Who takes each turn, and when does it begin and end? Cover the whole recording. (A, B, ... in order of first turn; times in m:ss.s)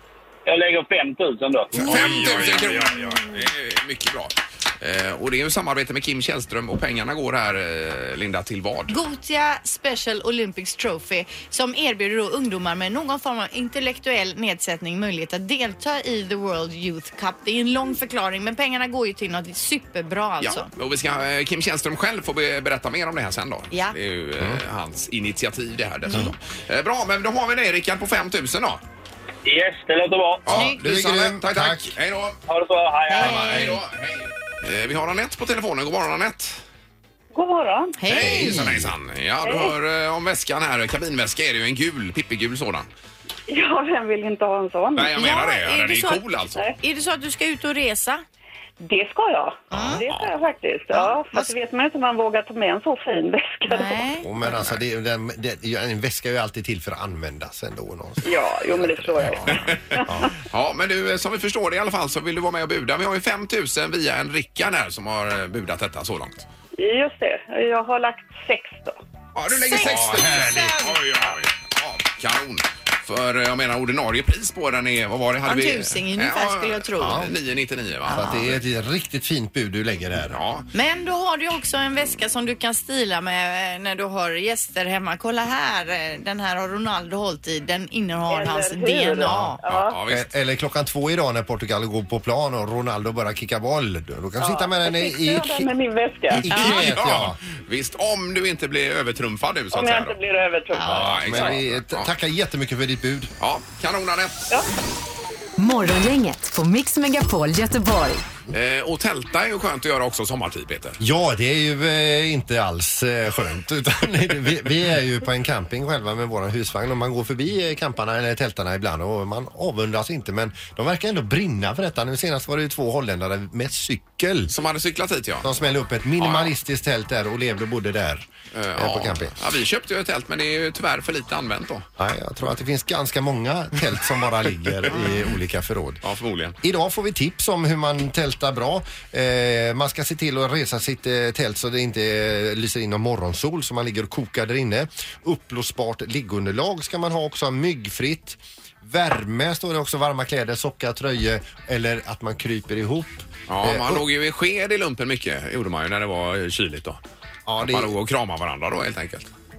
0:00.4-0:01.9 A
0:01.8-0:03.3 B
0:01.8-0:02.8 C
0:01.8-0:09.0 D
0:08.9-0:20.7 B
0:20.4-0:28.8 D
0:29.4-0:30.4 A
0:30.4-0:32.4 D
0:30.5-0:31.9 C
0:30.5-0:30.8 B
0:32.5-0:33.7 A
0:33.1-0:33.8 B
0:33.2-0:36.6 D
0:37.3-0:38.0 E
0:38.0-0:38.6 B
0:38.1-0:42.9 D
0:38.2-0:38.9 C
0:39.4-0:39.7 E
0:43.5-0:45.2 E
0:44.9-0:46.6 D
0:45.2-0:46.2 B
0:46.8-0:48.2 B
0:48.8-0:54.1 E
0:49.7-0:50.0 C
0:49.7-0:50.3 D
0:50.9-0:51.5 B
0:53.7-0:54.3 B
0:54.2-1:00.3 C
0:58.2-1:00.3 E
0:59.5-1:06.4 D
1:06.8-1:09.0 E
1:09.3-1:18.6 D
1:09.5-1:11.0 B
1:09.7-1:10.7 C
1:15.4-1:17.2 B
1:17.0-1:17.3 C
1:18.0-1:18.4 B
1:18.1-1:20.4 C
1:20.3-1:20.7 D
1:20.7-1:29.6 B
1:28.3-1:30.0 E
1:29.2-1:29.6 C
1:29.6-1:30.3 D
1:30.1-1:35.7 C
1:34.4-1:36.5 E
1:36.3-1:37.4 C
1:36.5-1:36.8 B
1:36.5-1:40.2 D
1:39.7-1:41.5 E
1:40.8-1:41.1 B
1:40.8-1:43.3 C
1:40.9-1:42.1 D
1:43.4-1:44.6 D
1:45.6-1:48.2 F
1:48.5-1:51.0 D
1:51.0-2:04.5 C
2:04.5-2:05.5 D
2:05.4-2:09.3 C
2:06.2-2:06.5 D
2:08.5-2:11.9 D
2:12.0-2:16.0 C
2:16.0-2:16.6 D
2:16.6-2:34.0 C
2:33.5-2:37.0 D
2:37.4-2:37.9 C
2:37.6-2:39.3 D